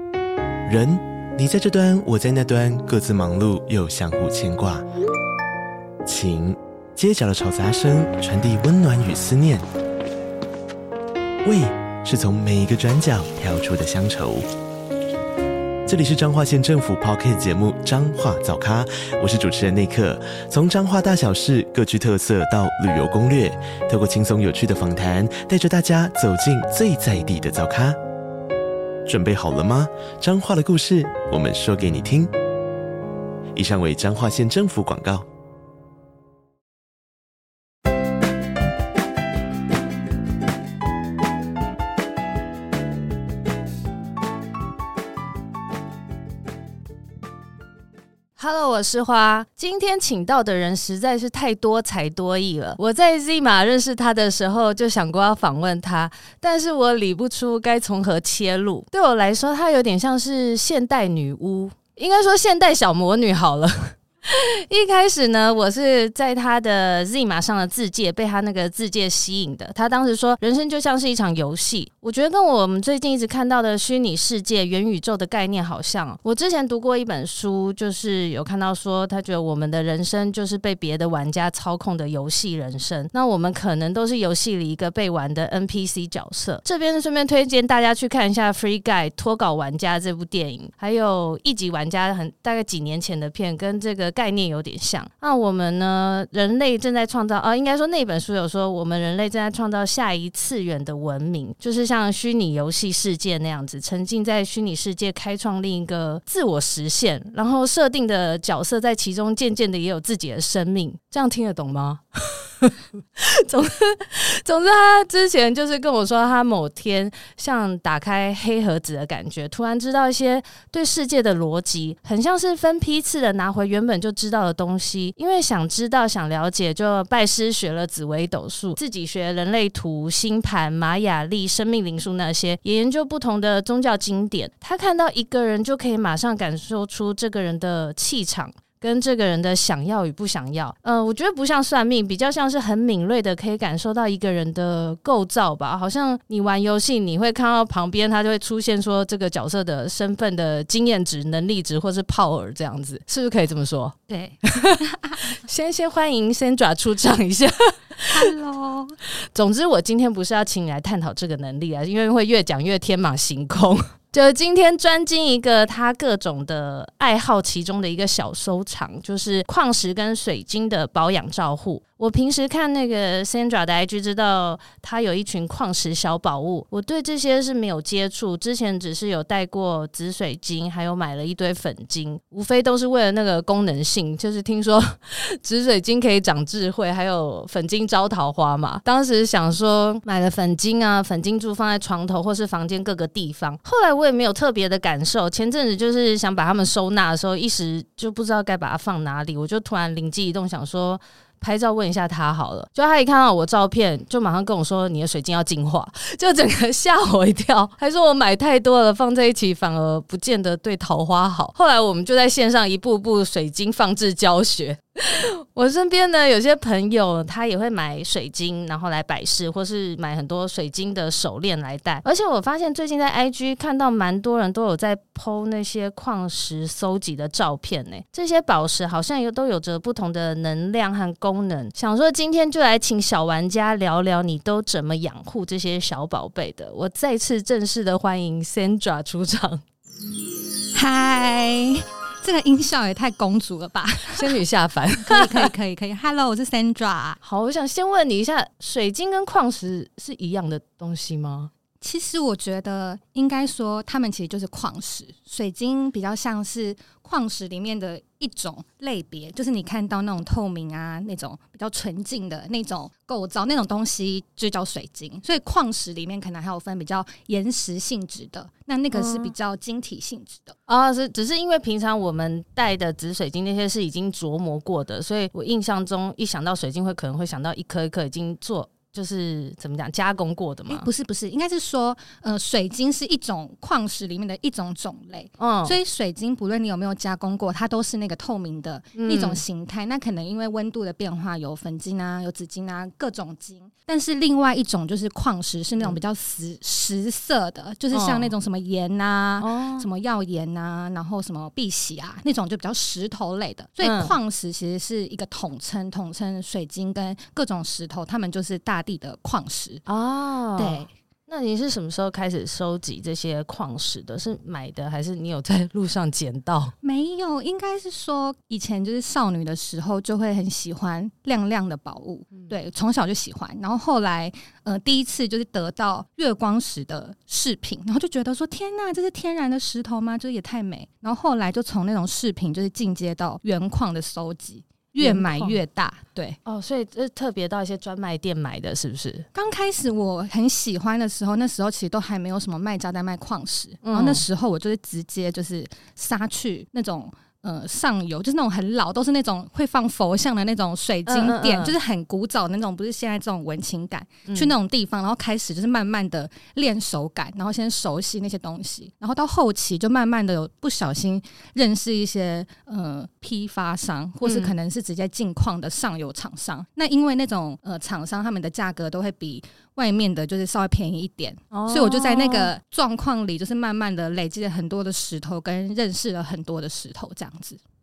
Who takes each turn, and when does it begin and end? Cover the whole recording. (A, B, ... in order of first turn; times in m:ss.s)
0:00.6-0:04.8 A
0:06.0-0:09.6 A
0:11.4-0:14.5 A
0:15.8-0:28.0 A
0:29.0-0:32.3 A
0:33.5-0:35.2 A
0:48.4-2:34.8 B
2:34.1-2:35.3 C
2:35.3-2:38.2 B
2:38.1-2:39.0 C
2:39.2-3:59.6 B
4:00.7-4:04.4 C
4:04.1-4:05.5 B
4:05.0-4:07.2 C
4:07.2-4:11.5 B
4:11.8-4:30.6 C
4:28.9-4:29.3 B
4:30.7-4:40.9 B
4:40.7-5:09.8 C
4:45.4-4:45.8 B
4:48.9-4:49.4 B
4:57.9-4:58.3 B
4:59.4-4:59.9 B
5:03.8-5:04.1 B
5:09.8-5:16.7 B
5:10.6-5:10.9 C
5:16.8-5:36.4 C
5:35.0-5:35.6 B
5:36.4-5:39.2 B
5:39.3-6:17.6 C
5:43.8-5:44.2 B
5:51.1-5:51.7 B
5:54.3-5:54.5 B
6:04.2-6:04.5 B
6:11.5-6:12.5 B